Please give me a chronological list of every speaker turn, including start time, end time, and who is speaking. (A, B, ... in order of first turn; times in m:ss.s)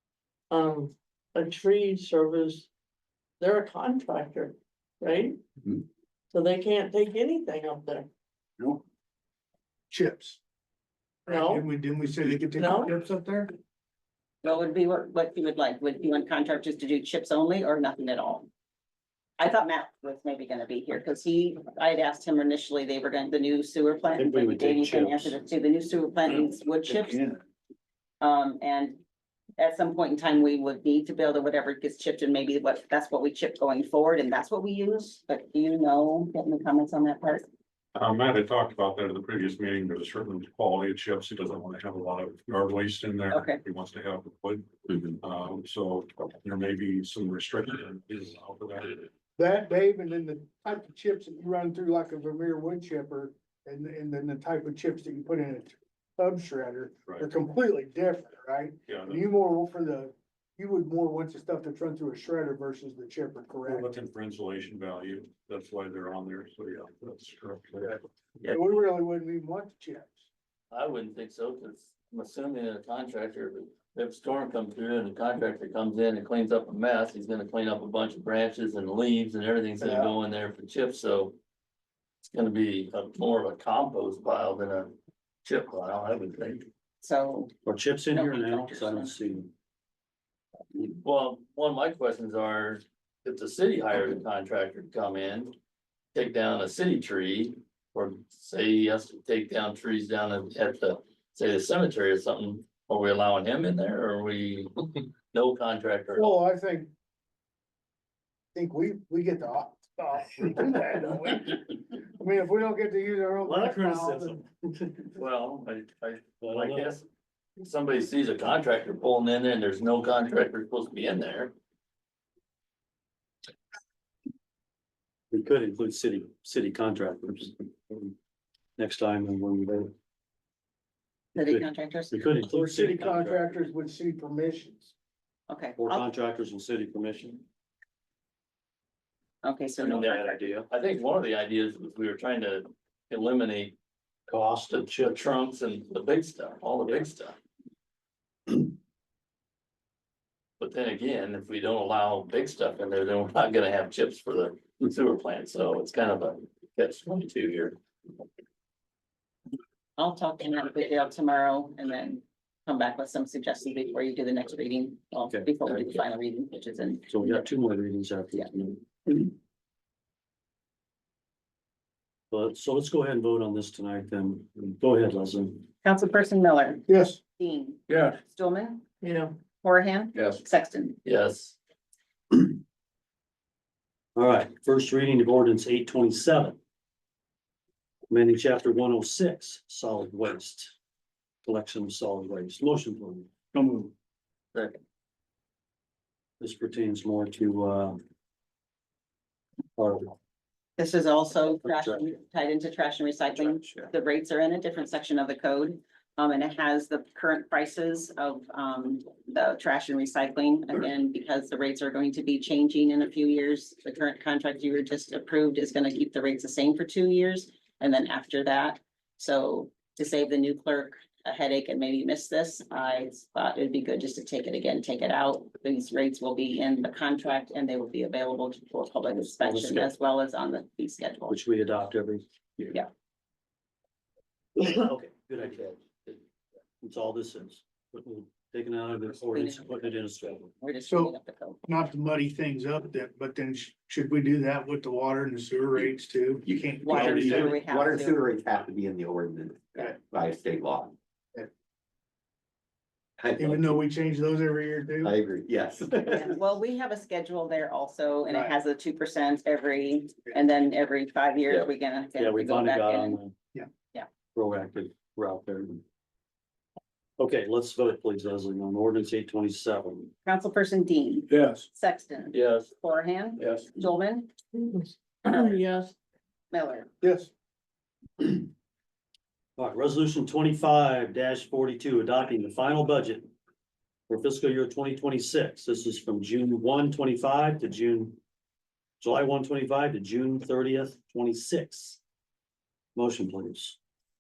0:00.5-0:02.7 A
0:03.4-0:05.4 A
0:06.3-0:08.1 A
0:09.9-0:10.4 B
0:11.3-0:13.6 B
0:11.3-0:11.7 A
0:12.6-0:12.9 A
0:14.4-0:18.5 C
0:19.4-0:27.2 C
0:24.2-0:25.4 D
0:26.9-0:27.3 B
0:28.2-0:29.0 C
0:29.6-0:37.5 C
0:38.0-0:49.1 E
0:43.3-0:43.6 C
0:49.4-1:03.9 B
0:58.9-0:59.2 E
1:03.6-1:08.0 E
1:08.5-1:10.3 B
1:10.7-1:21.4 F
1:19.8-1:20.1 B
1:22.3-1:26.7 F
1:27.0-1:27.5 C
1:27.6-1:29.5 D
1:28.1-1:29.2 C
1:30.8-1:35.5 F
1:36.1-1:44.7 F
1:45.3-1:46.3 F
1:46.1-1:46.9 B
1:48.5-1:54.4 B
1:53.4-1:55.1 D
1:55.2-1:57.1 F
1:56.4-1:57.0 D
1:57.6-2:01.5 F
2:05.3-2:08.1 D
2:08.8-2:09.9 D
2:11.3-2:13.6 D
2:11.4-2:12.3 C
2:12.5-2:14.9 B
2:15.5-2:16.1 C
2:15.8-2:17.4 D
2:19.4-2:20.5 C
2:19.8-2:23.8 F
2:20.4-2:20.7 D
2:24.3-2:27.4 F
2:30.6-2:37.8 F
2:40.0-2:47.5 C
2:47.1-2:49.3 D
2:52.3-2:55.7 D
2:55.8-2:56.9 C
2:56.9-2:57.2 B
2:57.4-2:58.8 C
2:59.0-2:59.3 A
2:59.6-3:01.0 C
3:01.0-3:01.6 F
3:04.2-3:06.6 D
3:08.1-3:10.8 D
3:11.4-3:13.3 D
3:14.5-3:14.8 F
3:16.4-3:18.0 D
3:19.8-3:20.2 D
3:20.8-3:51.4 C
3:21.6-3:22.1 D
3:49.2-3:49.9 D
3:51.3-3:52.8 D
3:54.6-3:56.2 D
3:56.8-4:00.5 D
3:59.2-4:00.0 C
4:00.6-4:01.6 C
4:00.9-4:07.6 B
4:06.8-4:08.2 C
4:07.0-4:11.0 G
4:13.2-4:13.8 G
4:13.4-4:15.2 B
4:15.0-4:16.4 G
4:16.1-4:23.2 C
4:18.3-4:18.6 B
4:22.2-4:23.3 D
4:24.3-4:25.8 D
4:27.2-4:30.1 D
4:30.2-4:34.3 C
4:32.3-4:32.7 F
4:34.6-4:35.9 A
4:35.3-4:35.6 C
4:36.5-4:36.9 C
4:37.0-4:37.3 B
4:39.6-4:43.3 D
4:44.1-4:48.2 D
4:49.0-4:52.0 D
4:53.0-4:53.8 D